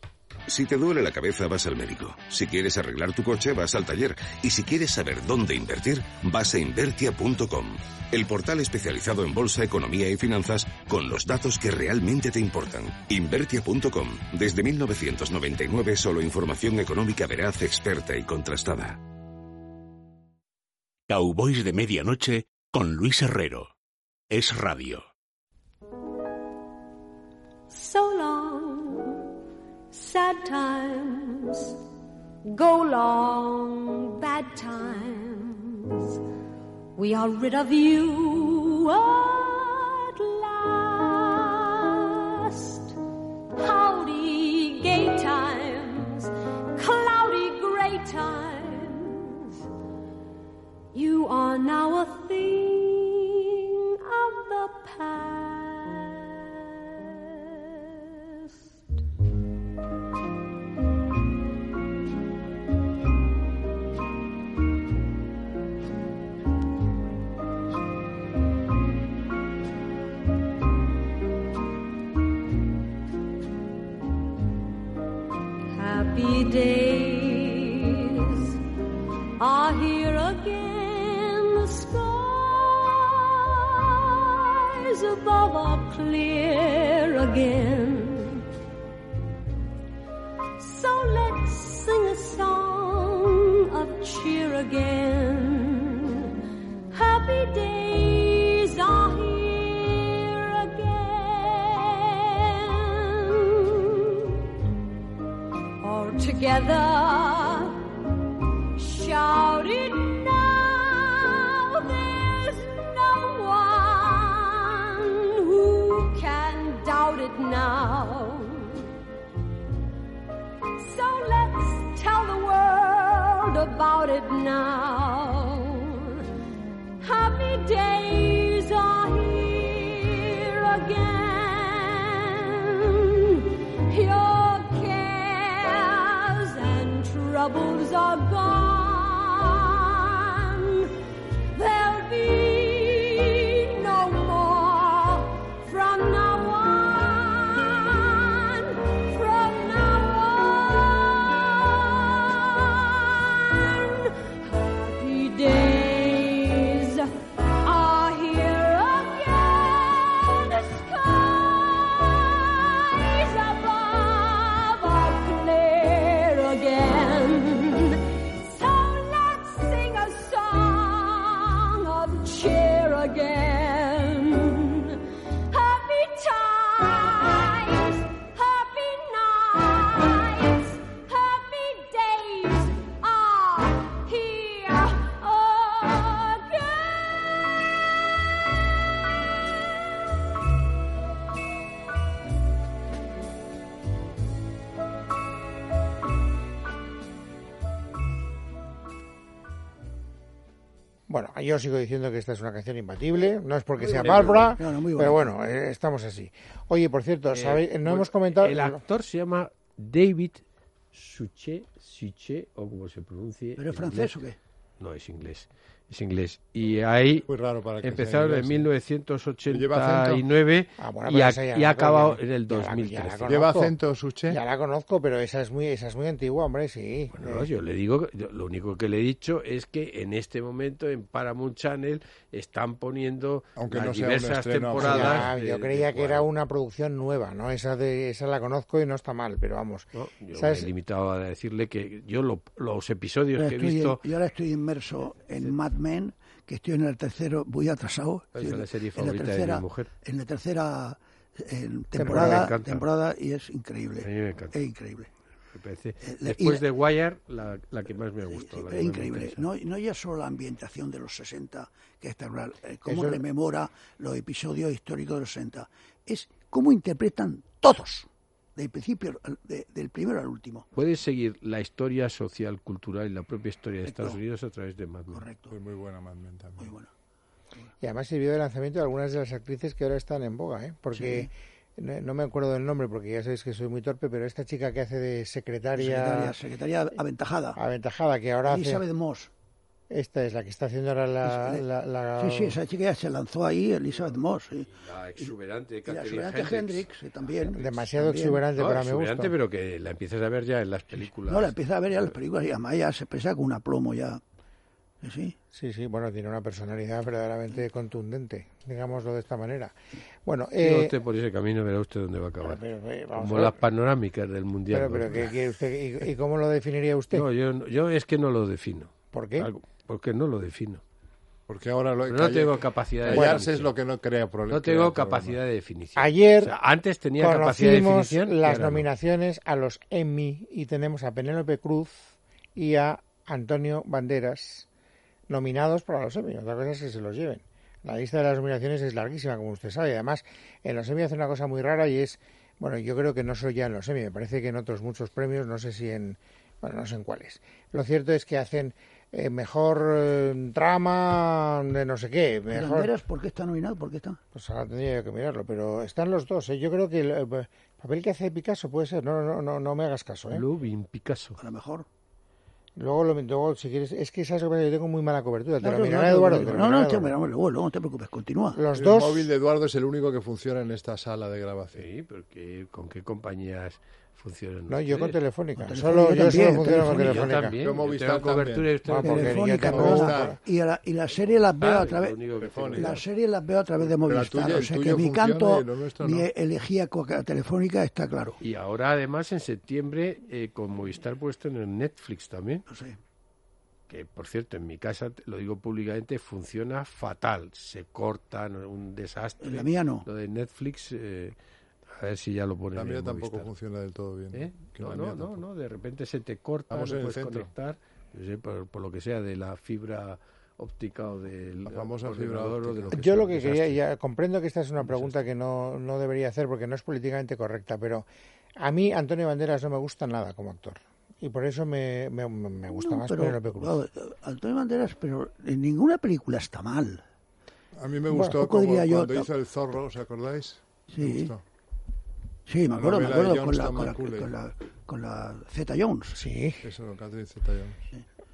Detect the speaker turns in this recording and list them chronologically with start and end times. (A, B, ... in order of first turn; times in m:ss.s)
0:00.5-0:19.0 A
0:21.1-0:23.7 B
0:24.3-0:25.0 B
0:27.7-0:29.3 C
0:29.9-0:31.8 C
0:32.5-0:36.2 C
0:37.0-0:43.0 C
0:43.6-0:49.6 C
0:50.9-0:58.5 C
1:15.7-1:18.6 C
1:19.4-1:28.4 C
1:30.6-1:36.3 C
1:36.9-1:44.4 C
1:45.8-1:47.9 C
1:48.8-1:58.8 C
2:00.8-2:06.2 C
2:07.0-2:20.9 C
2:21.5-2:55.0 C
2:55.5-3:07.9 C
3:21.1-3:28.8 D
3:23.8-3:25.3 E
3:24.0-3:24.6 F
3:27.3-3:30.4 F
3:30.9-3:34.1 F
3:33.6-3:34.4 E
3:34.8-3:37.3 F
3:37.3-3:38.7 G
3:37.8-3:43.4 F
3:39.5-3:40.2 G
3:40.8-3:43.8 D
3:43.3-3:44.4 G
3:44.3-3:47.5 D
3:47.1-3:56.3 F
3:53.6-3:55.3 G
3:54.8-4:00.7 D
3:59.9-4:04.1 F
4:03.4-4:15.1 E
4:08.4-4:09.9 F
4:12.0-4:12.5 D
4:12.0-4:12.9 F
4:14.0-4:14.6 F
4:15.5-4:19.5 F
4:16.1-4:16.7 E
4:18.3-4:30.7 E
4:22.9-4:23.2 D
4:30.8-4:35.2 F
4:33.9-4:34.2 E
4:35.1-4:35.5 E
4:35.5-4:36.7 G
4:36.6-4:36.9 E
4:37.8-4:46.4 D
4:40.9-4:41.3 E
4:45.8-4:47.6 E
4:47.6-4:48.8 D
4:48.5-4:49.3 E
4:49.9-4:52.6 D
4:51.2-4:51.6 E
4:52.2-4:55.3 E
4:53.9-4:56.9 F
4:55.9-4:58.4 E
4:57.5-4:59.3 D
4:58.6-5:02.1 F
5:01.3-5:04.2 E
5:05.0-5:05.4 E
5:05.5-5:10.9 D
5:10.6-5:12.6 F
5:12.4-5:13.6 D
5:13.1-5:15.4 F
5:14.7-5:17.3 D
5:17.1-5:20.8 F
5:19.1-5:19.5 D
5:21.5-5:25.4 G
5:22.1-5:23.7 F
5:23.1-5:23.4 D
5:24.5-5:28.9 F
5:26.0-5:26.5 D
5:27.2-5:34.7 D
5:35.3-5:52.9 D
5:52.5-5:54.2 E
5:54.3-6:00.4 D
6:00.3-6:01.4 F
6:01.4-6:01.9 E
6:02.8-6:07.1 D
6:05.6-6:08.6 E
6:08.5-6:09.3 D
6:08.7-6:11.8 G
6:11.8-6:15.2 F
6:14.7-6:17.6 D
6:15.6-6:17.3 E
6:16.4-6:19.7 F
6:17.6-6:18.7 G
6:18.8-6:20.4 D
6:19.0-6:22.2 E
6:19.6-6:20.4 G
6:21.2-6:23.0 F
6:22.4-6:23.0 G
6:22.7-6:28.4 E
6:23.9-6:26.3 G
6:28.4-6:32.6 F
6:32.7-6:33.0 E
6:33.9-6:41.4 F
6:39.4-6:40.1 E
6:41.9-6:43.5 F
6:42.8-6:45.4 G
6:44.3-6:53.7 F
6:46.7-6:47.5 G
6:51.6-6:53.7 G
6:52.9-6:58.1 D
6:54.8-6:55.1 F
6:58.6-7:03.8 D
7:02.8-7:07.0 E
7:07.8-7:11.4 G
7:08.1-7:09.3 E
7:10.9-7:11.3 E
7:12.5-7:16.2 E
7:12.7-7:14.3 G
7:16.2-7:16.6 D
7:16.6-7:17.8 G